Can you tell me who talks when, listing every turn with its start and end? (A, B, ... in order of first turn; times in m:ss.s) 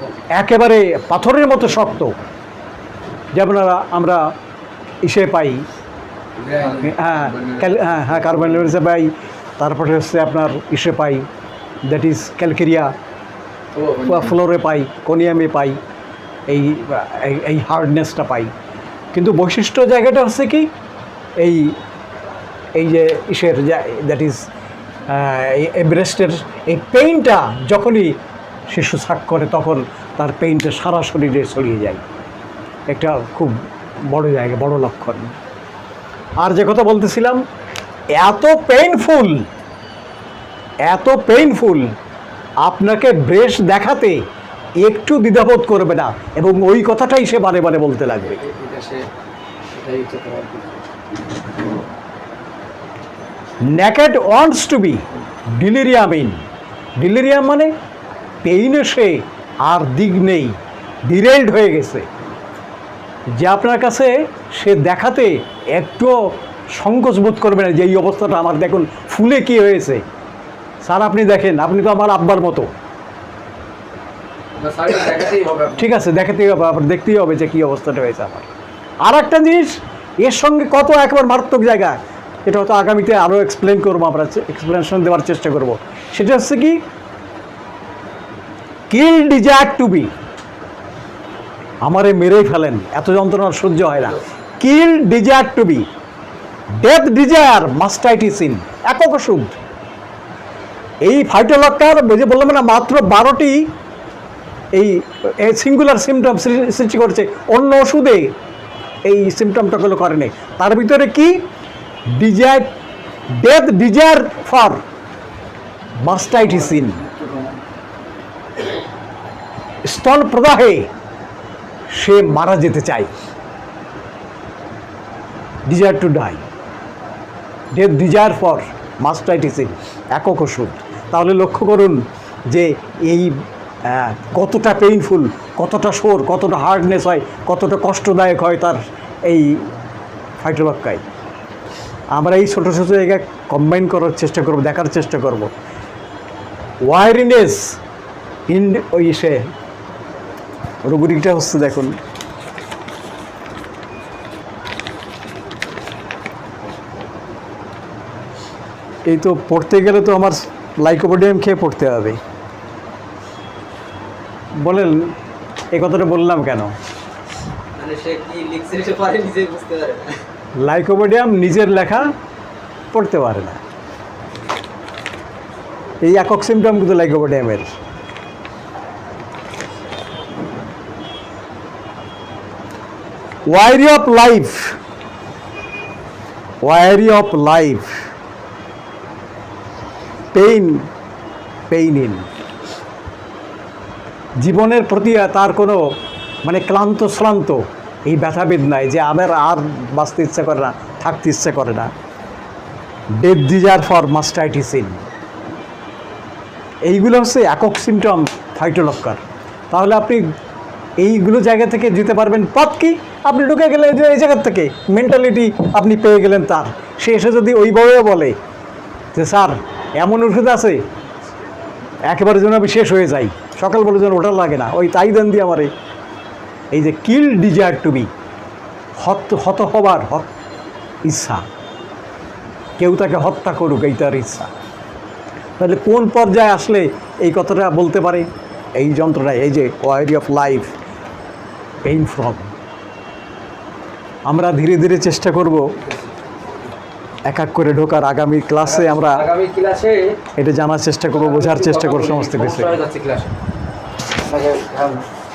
0:00.3-0:02.2 A
0:03.3-0:04.3 A
0:05.0-0:05.6 A
0:06.4-0:07.6 B
0:06.8-0:11.2 A
0:11.8-0:12.9 A
0:13.7-0:14.4 B
0:14.0-0:15.8 A
0:16.5-0:18.5 A
0:19.1-0:20.7 A
0:21.4-0:21.8 A
0:22.8-0:24.5 A
0:25.1-0:32.0 A
0:32.9-0:33.6 A
0:34.1-0:35.3 A
0:36.4-0:37.4 A
0:38.1-0:39.5 A
0:40.8-0:41.9 A
0:42.6-0:44.2 A
0:44.8-0:48.4 A
0:48.4-0:49.0 B
0:49.7-0:50.8 B
0:53.6-0:56.4 A
0:57.0-0:57.7 A
0:58.4-1:02.1 A
1:03.3-1:10.0 A
1:10.8-1:12.7 A
1:14.6-1:15.9 B
1:15.8-1:18.5 A
1:19.0-1:26.8 A
1:28.9-1:30.1 A
1:31.8-1:35.9 A
1:36.8-1:39.6 A
1:41.0-1:43.7 A
1:44.7-1:48.3 A
1:49.0-1:51.4 A
1:52.1-1:52.7 A
1:53.4-1:54.8 A
1:56.0-1:57.0 A
1:56.4-1:57.6 B
1:59.8-2:00.9 A
2:01.9-2:03.1 A
2:05.7-2:06.4 A
2:07.7-2:19.7 A
2:20.4-2:21.0 A
2:22.1-2:25.5 A
2:26.8-2:27.8 A
2:28.5-2:29.5 A
2:30.8-2:32.0 A
2:39.1-2:42.2 A
2:44.6-2:45.1 A
2:45.7-2:46.7 A
2:47.8-2:50.0 C
2:48.7-2:48.9 B
2:50.6-2:52.1 A
2:52.9-2:53.6 A
2:56.0-2:57.7 A
3:03.5-3:04.8 A
3:06.6-3:08.1 A
3:10.3-3:10.9 A
3:11.7-3:12.3 A
3:14.4-3:15.9 A
3:16.4-3:21.9 A
3:23.1-3:25.0 A
3:26.8-3:30.3 A
3:31.0-3:38.4 A
3:39.1-3:40.9 A
3:42.1-3:45.7 A
3:46.7-3:48.1 A
3:49.0-3:50.3 A
3:51.0-3:51.4 A
3:52.8-3:54.5 A
3:55.6-4:00.7 A
4:01.8-4:02.5 A
4:04.3-4:05.7 A
4:07.2-4:09.2 A
4:08.6-4:10.1 B
4:10.4-4:12.8 A
4:11.1-4:13.4 B
4:14.2-4:15.0 B